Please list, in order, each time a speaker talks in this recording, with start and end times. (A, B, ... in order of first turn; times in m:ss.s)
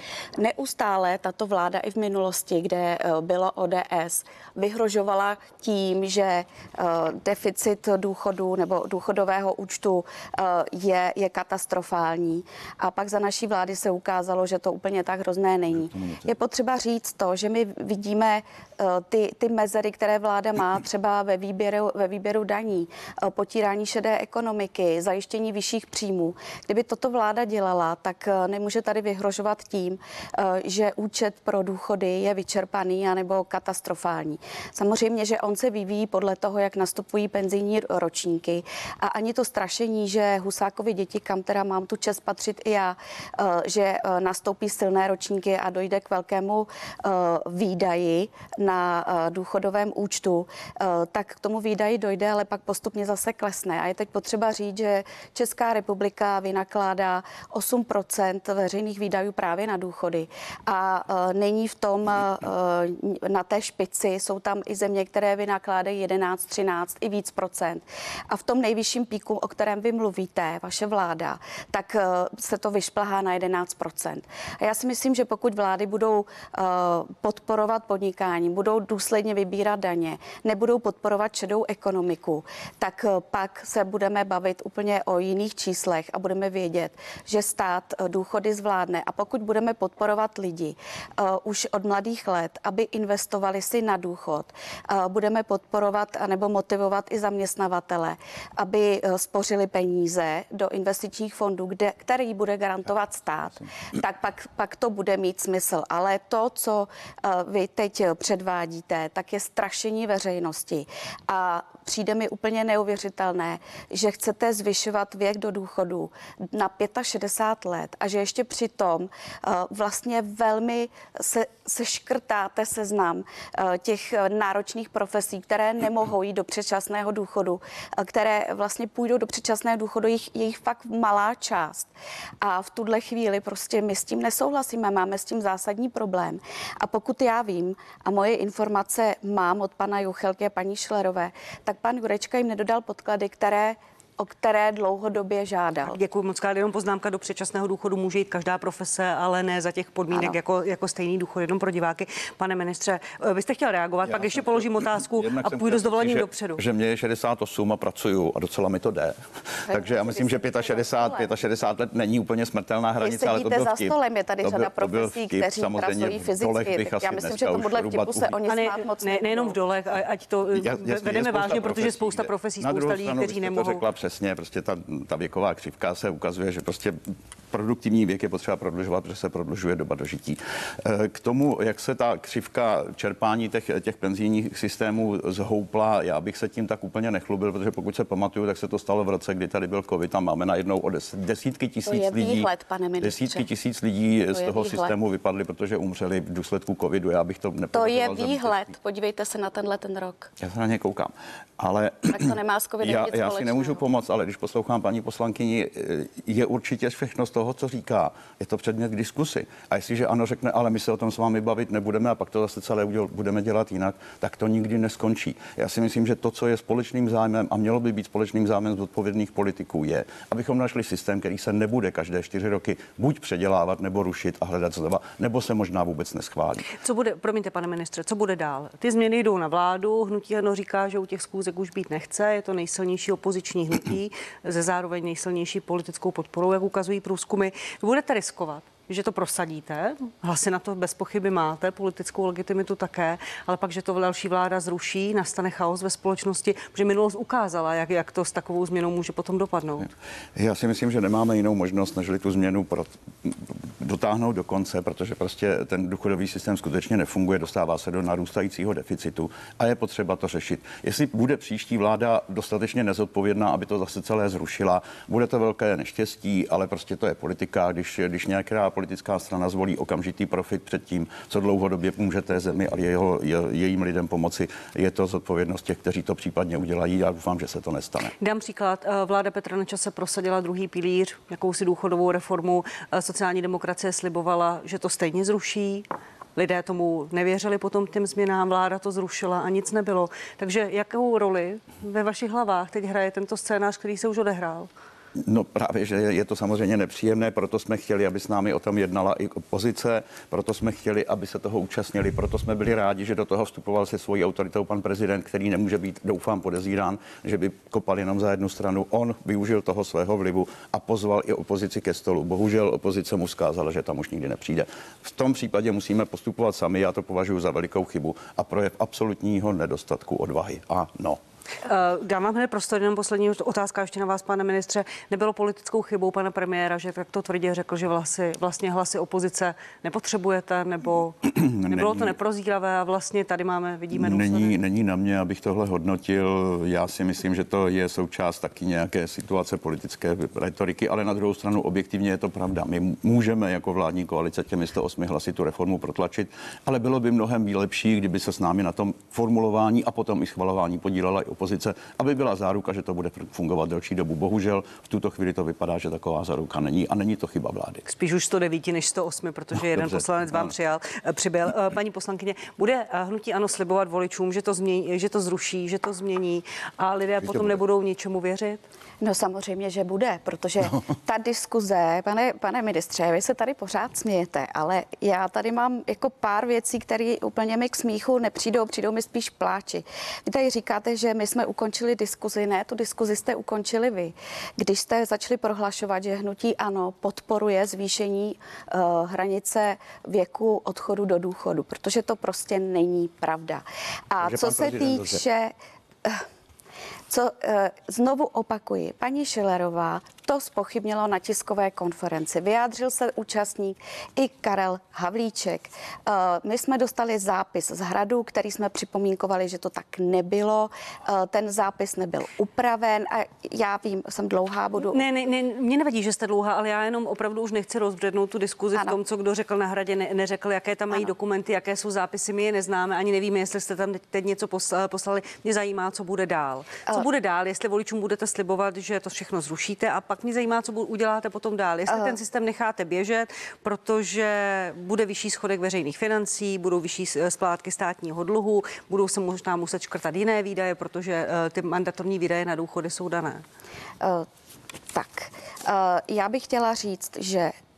0:00.4-2:11.9 A
0:15.7-0:16.3 B
2:12.4-2:26.0 A
2:25.8-2:36.6 C
2:30.1-2:30.4 A
2:34.0-2:48.4 B
2:39.7-2:41.3 A
2:43.0-2:49.6 A
2:48.5-2:53.8 C
2:50.5-2:57.0 B
2:57.5-3:12.5 B
3:11.9-3:13.5 A
3:13.0-3:18.7 B
3:14.3-3:14.9 A
3:17.7-3:20.3 A
3:20.4-3:46.7 B
3:22.1-3:23.8 A
3:46.7-4:09.9 C
4:10.4-4:38.1 B
4:38.2-4:54.7 C
4:55.2-5:21.2 B
5:21.6-5:34.6 C
5:31.3-5:32.1 B
5:33.9-5:57.8 B
5:57.9-6:08.6 C
5:59.5-6:00.5 B
6:07.2-6:07.6 B
6:09.0-6:35.5 A
6:34.2-6:35.2 B
6:37.1-6:55.0 A
6:54.8-7:23.4 C
7:11.9-7:12.2 A
7:24.0-7:24.3 A
7:24.9-7:27.6 A